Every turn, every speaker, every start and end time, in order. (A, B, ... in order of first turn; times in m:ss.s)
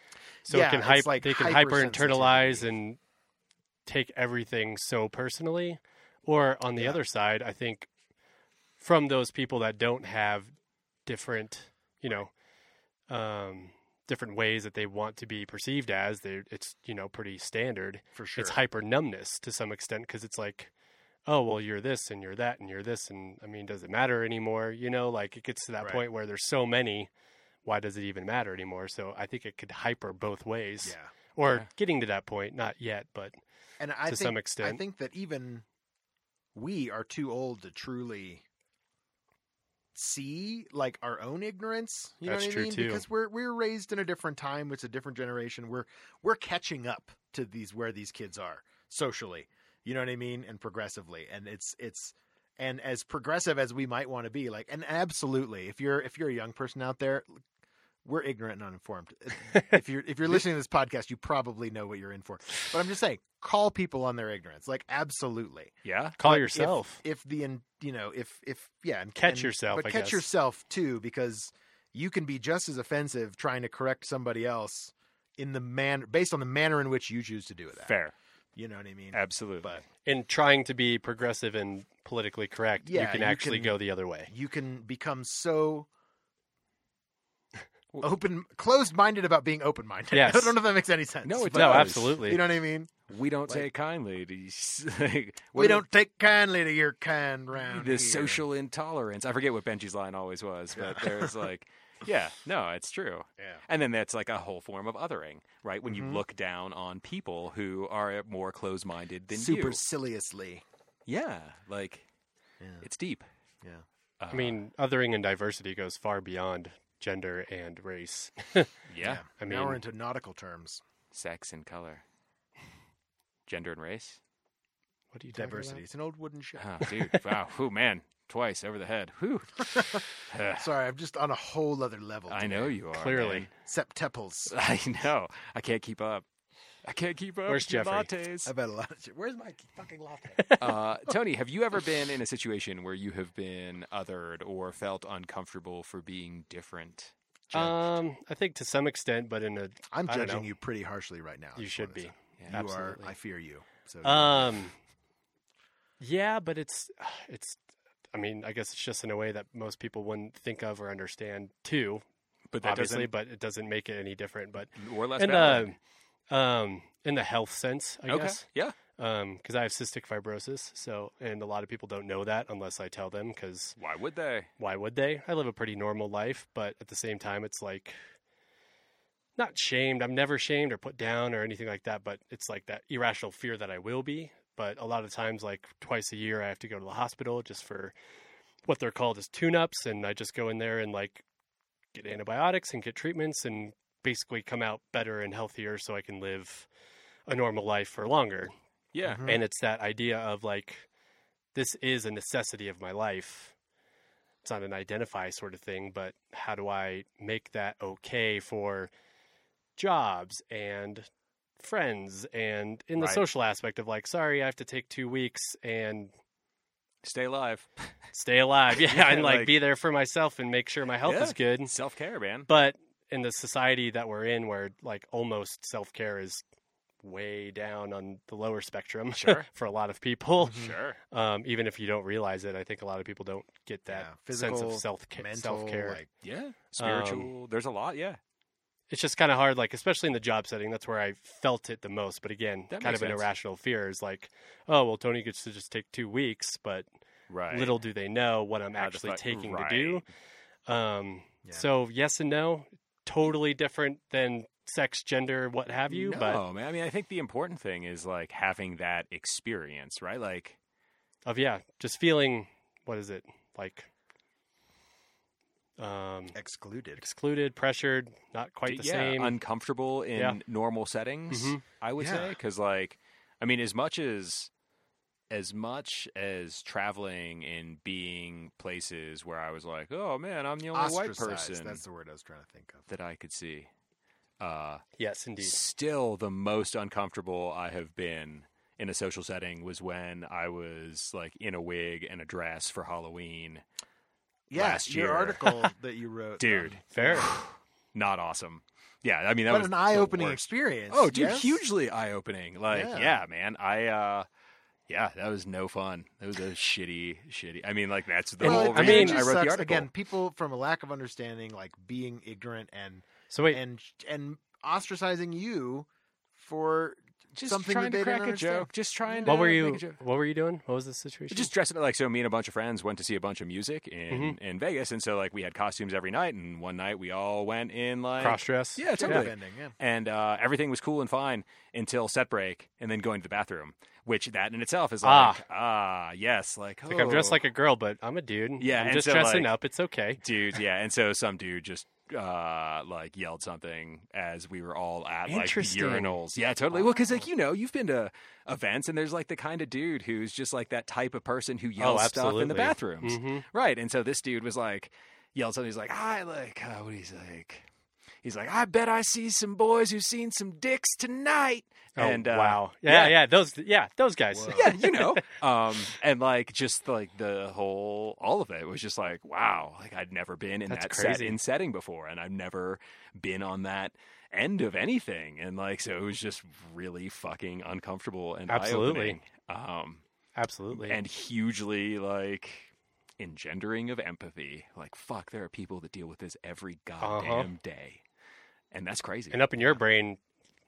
0:00.5-0:03.0 A
0:00.5-0:02.7 B
0:03.9-0:07.9 A
0:08.8-0:10.5 A
0:11.1-0:12.3 A
0:13.1-0:20.7 A
0:18.1-0:18.6 B
0:21.3-0:27.1 A
0:25.8-0:26.0 B
0:27.6-0:33.4 A
0:30.8-0:31.1 B
0:33.8-0:35.6 B
0:34.1-0:34.8 A
0:36.6-0:38.4 B
0:39.9-0:57.4 B
0:42.3-0:43.0 A
0:58.0-1:18.0 B
1:05.8-1:06.2 C
1:06.2-1:07.0 A
1:09.2-1:10.3 A
1:17.9-1:18.1 C
1:18.6-1:19.8 B
1:19.1-1:19.7 C
1:20.0-1:24.3 A
1:22.8-1:23.8 B
1:24.3-1:25.9 B
1:28.0-1:33.6 B
1:30.1-1:30.6 A
1:31.2-1:32.4 C
1:31.5-1:32.4 A
1:33.1-1:35.8 C
1:35.5-1:38.4 B
1:37.6-1:49.8 C
1:40.7-1:41.4 B
1:43.4-1:43.6 B
1:45.8-1:46.2 B
1:49.3-1:50.6 B
1:51.1-1:52.1 C
1:52.6-1:52.9 B
1:52.8-1:53.2 C
1:54.2-1:54.6 C
1:54.3-1:58.7 A
1:58.9-1:59.2 C
1:59.0-2:00.8 B
1:59.4-1:59.8 A
2:01.1-2:02.0 C
2:03.5-2:04.2 C
2:05.1-2:05.8 A
2:05.3-2:06.8 B
2:06.6-2:10.6 C
2:06.8-2:07.2 A
2:09.7-2:12.8 B
2:12.3-2:13.5 C
2:12.9-2:13.5 A
2:13.6-2:14.5 B
2:14.5-2:16.3 C
2:16.8-2:18.5 C
2:17.5-2:18.1 A
2:18.4-2:20.7 B
2:20.6-2:27.1 C
2:27.5-2:27.9 B
2:27.5-2:30.5 A
2:29.9-2:34.6 B
2:31.6-2:33.2 A
2:32.4-2:32.6 C
2:34.0-2:34.7 A
2:36.0-2:37.6 A
2:38.1-2:42.0 A
2:42.5-2:43.1 C
2:42.6-2:45.8 A
2:44.8-2:45.7 C
2:46.3-2:48.4 A
2:48.1-2:48.8 C
2:49.0-2:53.8 A
2:53.8-2:54.5 C
2:54.6-2:58.0 A
2:59.4-3:07.9 A
3:08.6-3:11.2 A
3:11.9-3:16.7 A
3:17.3-3:18.5 A
3:18.9-3:19.3 C
3:19.0-3:19.4 B
3:19.2-3:20.9 A
3:21.6-3:23.5 A
3:24.4-3:28.9 A
3:29.8-3:31.1 A
3:31.6-3:36.1 A
3:33.0-3:33.2 C
3:37.0-3:38.0 C
3:38.1-3:41.7 A
3:38.7-3:39.6 C
3:41.1-3:42.5 C
3:42.5-3:46.4 A
3:47.0-3:56.0 A
3:49.1-3:49.5 C
3:50.4-3:50.7 B
3:50.5-3:51.0 C
3:53.9-3:56.1 B
3:56.2-3:58.2 C
3:56.8-3:57.3 A
3:58.9-4:06.9 A
4:02.7-4:03.2 C
4:07.3-4:07.8 C
4:07.5-4:10.1 A
4:08.8-4:10.0 C
4:10.7-4:16.4 A
4:15.9-4:20.6 C
4:21.3-4:23.9 A
4:25.8-4:26.4 A
4:26.3-4:27.0 B
4:27.0-4:29.4 A
4:28.7-4:34.5 C
4:31.3-4:31.6 A
4:32.0-4:32.4 B
4:35.3-4:41.8 C
4:40.7-4:42.9 B
4:42.9-4:43.7 C
4:44.4-4:44.8 C
4:45.0-4:45.6 A
4:45.4-4:53.6 C
4:54.5-4:57.3 B
4:54.6-4:55.7 C
4:56.4-5:04.3 C
4:56.9-4:57.3 A
4:59.5-5:01.6 B
5:02.7-5:03.2 B
5:04.9-5:09.9 C
5:08.4-5:09.3 A
5:08.4-5:19.3 B
5:13.3-5:13.6 A
5:17.4-5:20.0 C
5:19.2-5:21.5 A
5:21.3-5:37.4 C
5:24.1-5:24.4 A
5:28.2-5:29.3 A
5:28.9-5:29.7 B
5:35.0-5:35.4 A
5:36.9-5:40.2 A
5:38.6-5:39.5 C
5:40.2-5:57.7 C
5:45.3-5:46.2 A
5:51.8-5:53.4 A
5:58.2-6:03.2 C
6:02.0-6:05.3 A
6:04.3-6:04.7 B
6:04.5-6:20.0 C
6:10.7-6:11.4 A
6:18.5-6:19.2 A
6:20.4-6:21.0 A
6:20.7-6:28.0 C
6:27.0-6:27.5 A
6:28.7-6:29.8 C
6:29.3-6:30.2 A